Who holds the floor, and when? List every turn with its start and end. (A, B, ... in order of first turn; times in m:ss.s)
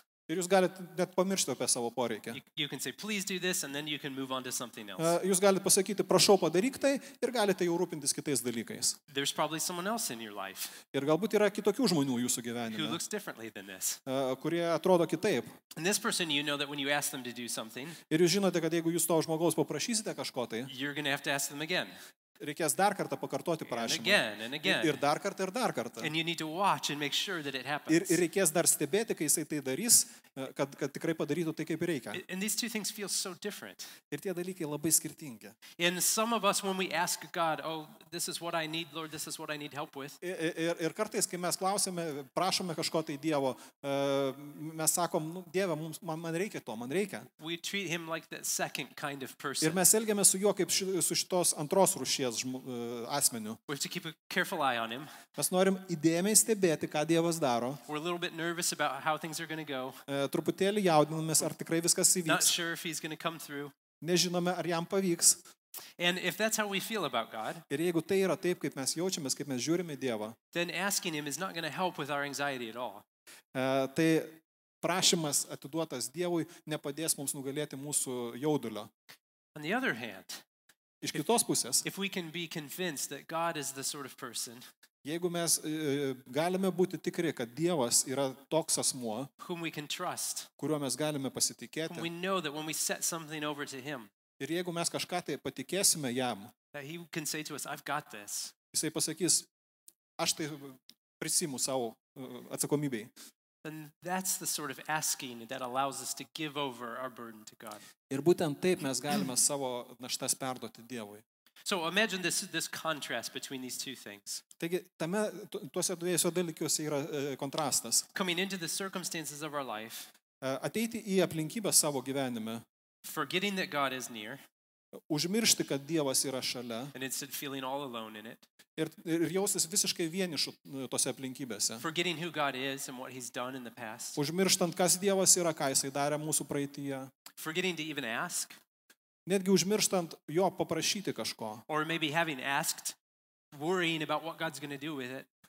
0:00.3-0:02.4 A
0:02.3-0:05.2 B
0:05.0-0:09.0 A
0:09.1-0:10.8 B
0:10.9-0:13.0 A
0:12.7-0:14.0 B
0:14.1-0:15.6 A
0:15.8-0:18.0 B
0:18.1-0:20.7 A
0:20.7-0:22.0 B
0:22.4-0:26.1 A
0:23.7-0:25.0 B
0:26.0-0:28.2 B
0:27.9-0:32.2 A
0:32.1-0:34.0 B
0:34.1-0:35.6 A
0:35.8-0:40.2 B
0:40.2-0:47.3 A
0:47.4-0:49.8 B
0:49.6-0:53.6 A
0:53.7-0:55.1 B
0:55.4-0:57.8 A
0:57.9-1:00.0 B
1:00.1-1:02.5 A
1:02.3-1:03.7 B
1:04.0-1:05.4 A
1:06.0-1:07.6 B
1:07.7-1:10.4 A
1:10.5-1:13.0 B
1:13.5-1:18.9 A
1:19.6-1:20.4 B
1:21.0-1:21.8 A
1:21.8-1:24.6 B
1:25.0-1:29.3 A
1:29.4-1:30.5 B
1:30.6-1:32.1 A
1:31.9-1:34.1 B
1:34.4-1:36.5 A
1:36.7-1:38.5 B
1:38.7-1:39.5 A
1:40.2-1:43.1 A
1:43.6-1:47.8 B
1:48.1-1:51.2 A
1:51.6-1:54.4 B
1:54.6-1:58.1 A
1:58.1-2:00.1 B
2:00.4-2:02.6 A
2:03.0-2:04.4 B
2:05.1-2:06.9 A
2:06.9-2:08.4 B
2:08.8-2:11.8 A
2:11.8-2:14.2 B
2:14.2-2:17.1 A
2:17.4-2:18.6 B
2:19.3-2:21.6 A
2:21.7-2:23.0 B
2:23.5-2:25.3 B